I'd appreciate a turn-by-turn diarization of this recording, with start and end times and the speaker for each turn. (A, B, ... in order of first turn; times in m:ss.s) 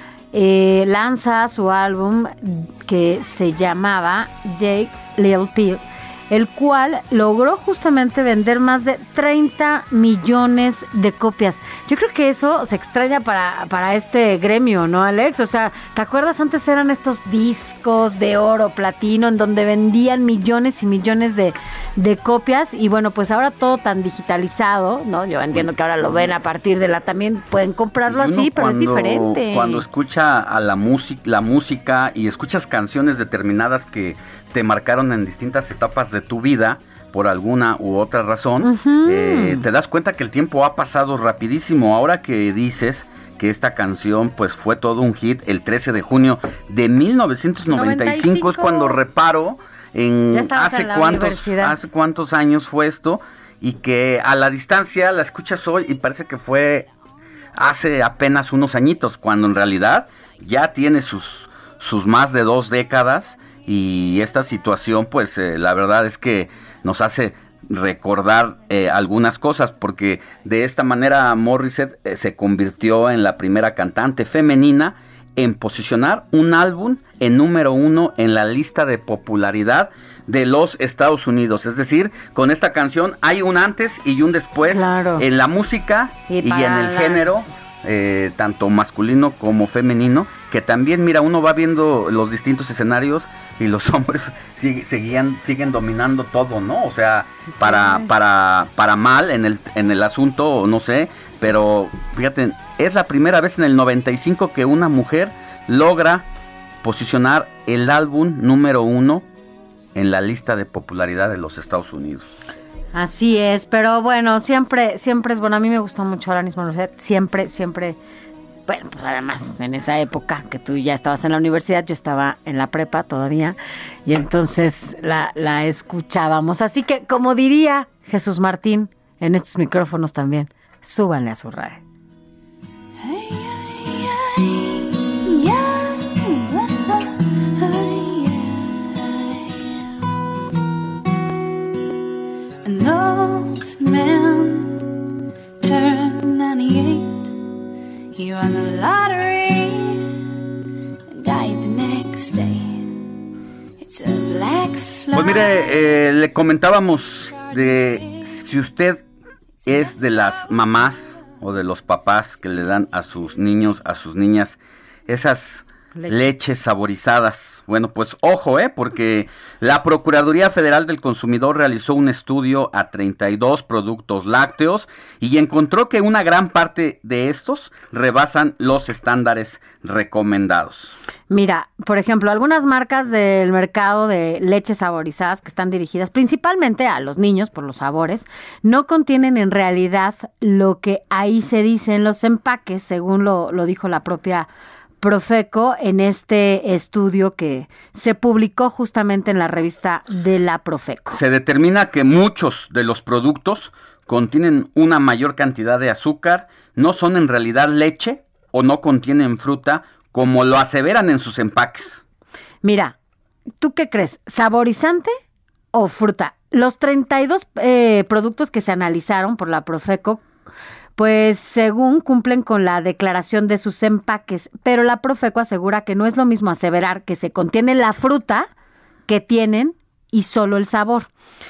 0:00.3-0:29.8 A
0:28.1-0:56.9 B
0:38.6-0:39.6 A
0:47.7-0:49.0 A
0:50.3-0:51.8 A
0:57.5-1:46.2 B
1:24.7-1:25.2 A
1:26.3-1:27.5 A
1:37.6-1:38.1 A
1:46.8-1:49.2 B
1:49.9-1:52.4 B
1:52.9-1:58.0 A
1:58.7-2:11.8 A
2:13.0-2:19.8 C
2:22.6-2:24.9 C
2:25.6-2:27.3 C
2:28.1-2:30.1 C
2:31.1-2:33.0 C
2:33.8-2:35.7 C
2:35.1-2:39.0 B
2:39.6-3:01.0 B
2:46.0-2:46.3 A
3:01.3-3:14.5 A
3:15.0-3:21.2 A
3:21.1-3:32.0 B
3:32.6-3:33.0 A
3:33.6-3:35.1 A
3:35.7-3:40.2 A
3:41.0-3:48.5 A
3:49.1-3:51.1 A